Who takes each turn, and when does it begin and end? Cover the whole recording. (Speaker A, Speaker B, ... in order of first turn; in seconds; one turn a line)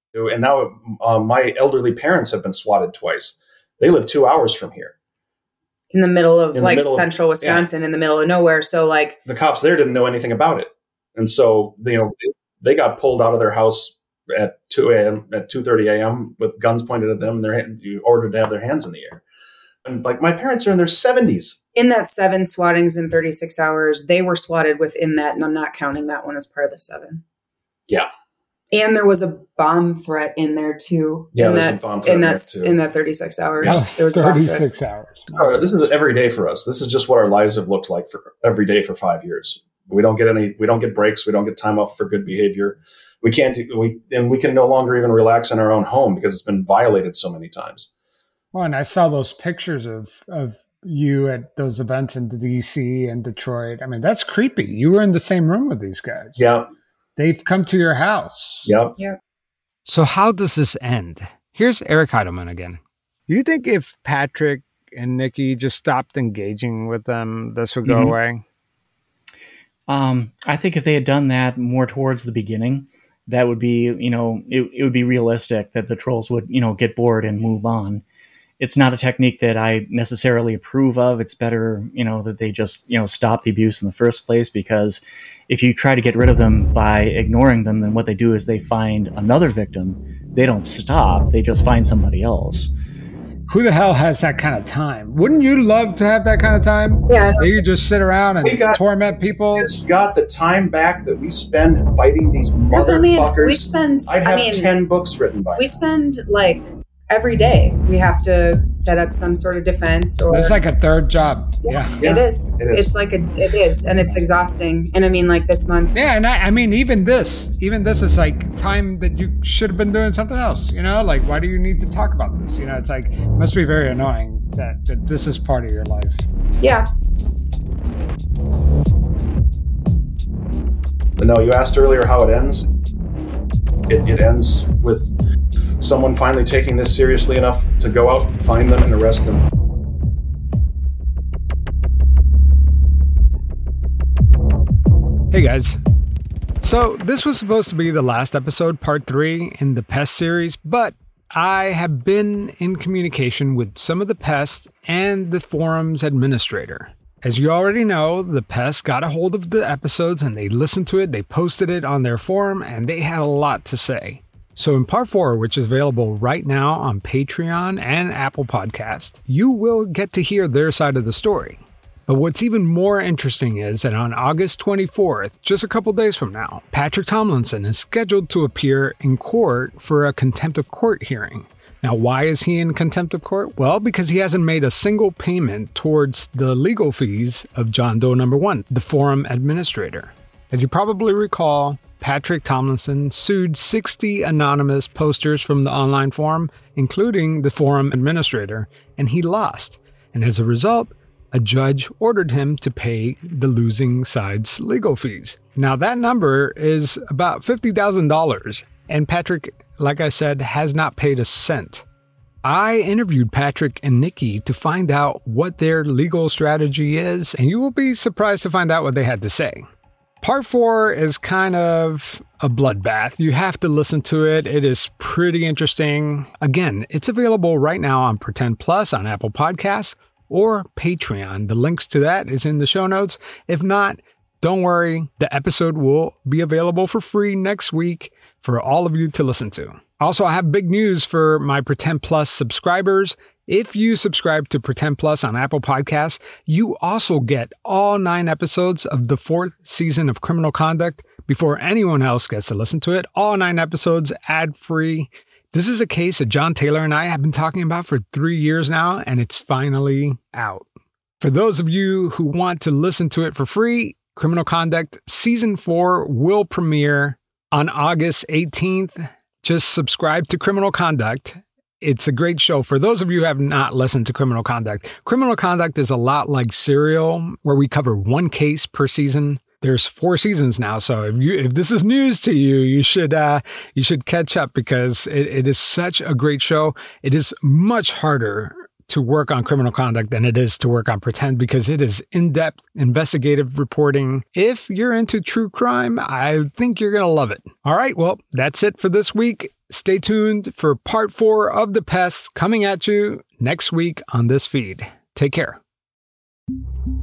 Speaker A: 0.1-4.9
Speaker B: 5.9-9.2
Speaker A: 6.5-7.7
Speaker A: 9.3-19.2
Speaker A: 19.9-21.6
Speaker B: 21.8-27.2
Speaker B: 28.7-34.7
Speaker A: 31.3-32.8
Speaker A: 33.6-34.0
Speaker C: 33.6-35.6
Speaker A: 35.3-47.9
Speaker C: 48.5-56.5
Speaker A: 56.4-56.7
Speaker C: 57.2-58.7
Speaker A: 58.6-59.0
Speaker C: 59.9-68.4
Speaker D: 67.9-68.1
Speaker D: 69.9-78.0
Speaker D: 78.6-92.7
Speaker C: 93.5-99.8
Speaker B: 97.1-97.7
Speaker A: 98.4-98.8
Speaker A: 99.5-105.8
Speaker B: 102.7-104.7
Speaker B: 105.6-110.6
Speaker C: 110.3-112.0
Speaker B: 111.6-115.9
Speaker A: 112.0-112.9
Speaker C: 115.9-126.2
Speaker B: 126.6-126.9
Speaker A: 131.2-132.7
Speaker A: 133.9-135.1
Speaker A: 135.8-139.5
Speaker C: 145.3-145.8
Speaker C: 146.6-211.8
Speaker C: 212.4-219.7
Speaker C: 220.2-260.7
Speaker C: 261.2-305.6